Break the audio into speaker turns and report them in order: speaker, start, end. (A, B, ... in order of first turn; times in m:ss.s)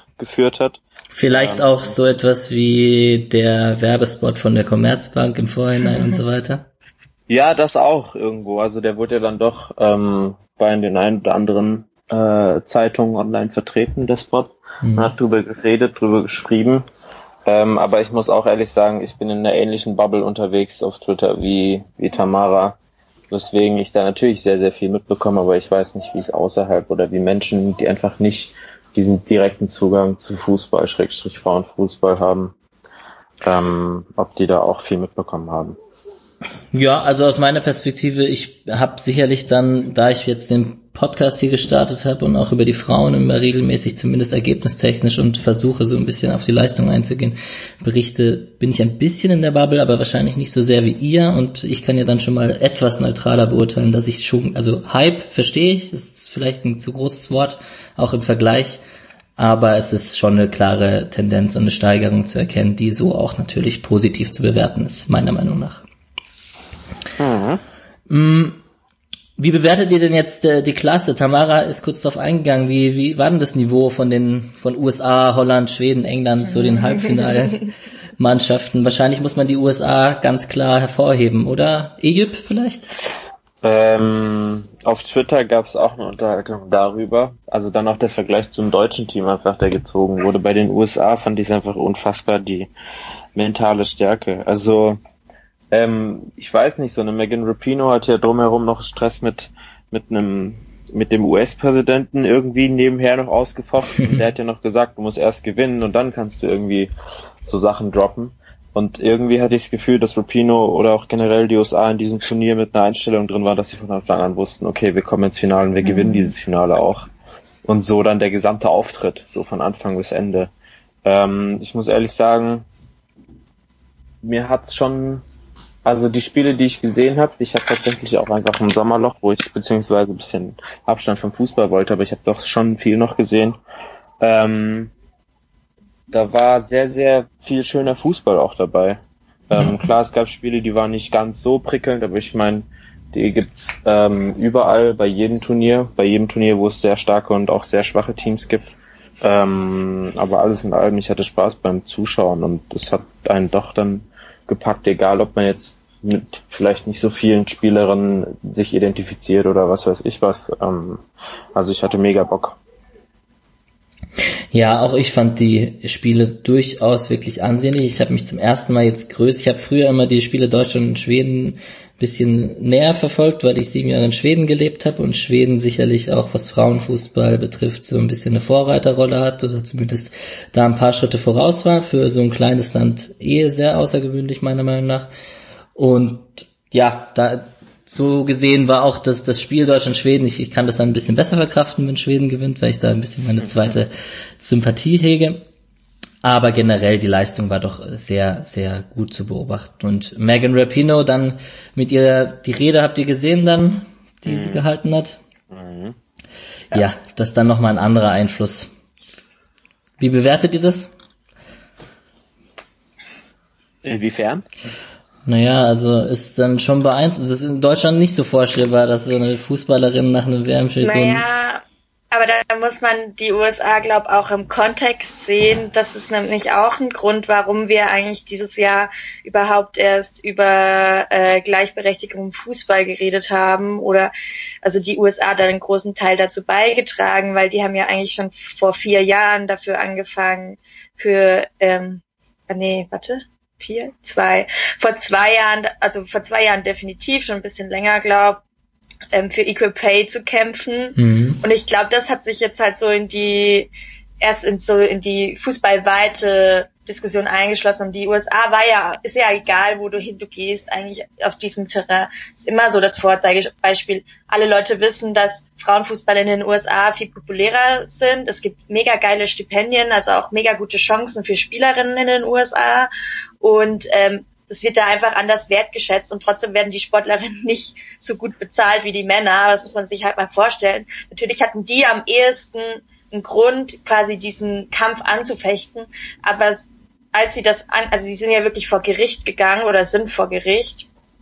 0:00.2-0:00.8 A
0:01.1-0:06.7 B
0:01.3-0:02.0 A
0:07.3-0:16.9 A
0:14.8-0:15.1 B
0:17.5-0:22.8 A
0:23.3-0:32.6 A
0:33.4-0:35.8 A
0:36.7-0:58.8 B
0:59.4-1:05.8 B
1:07.2-1:07.6 A
1:08.1-1:08.6 B
1:09.4-1:22.9 B
1:23.6-1:32.7 A
1:33.4-1:35.0 A
1:35.7-1:46.9 A
1:47.5-1:57.1 A
1:57.6-2:00.5 A
2:01.0-2:02.7 A
2:04.2-2:05.2 A
2:05.8-2:13.6 A
2:14.2-2:14.9 A
2:16.1-2:41.0 A
2:41.6-2:42.6 A
2:44.5-3:05.1 B
3:05.8-3:15.4 B
3:13.4-3:13.7 A
3:16.2-3:25.2 B
3:24.3-3:24.6 A
3:25.5-3:26.0 A
3:26.7-3:28.7 B
3:30.0-3:30.9 B
3:33.8-3:34.4 A
3:35.3-3:41.3 B
3:40.8-3:54.1 C
3:54.6-4:08.4 C
4:09.1-4:13.7 C
4:11.0-4:11.4 B
4:14.2-4:32.9 C
4:33.4-4:50.9 C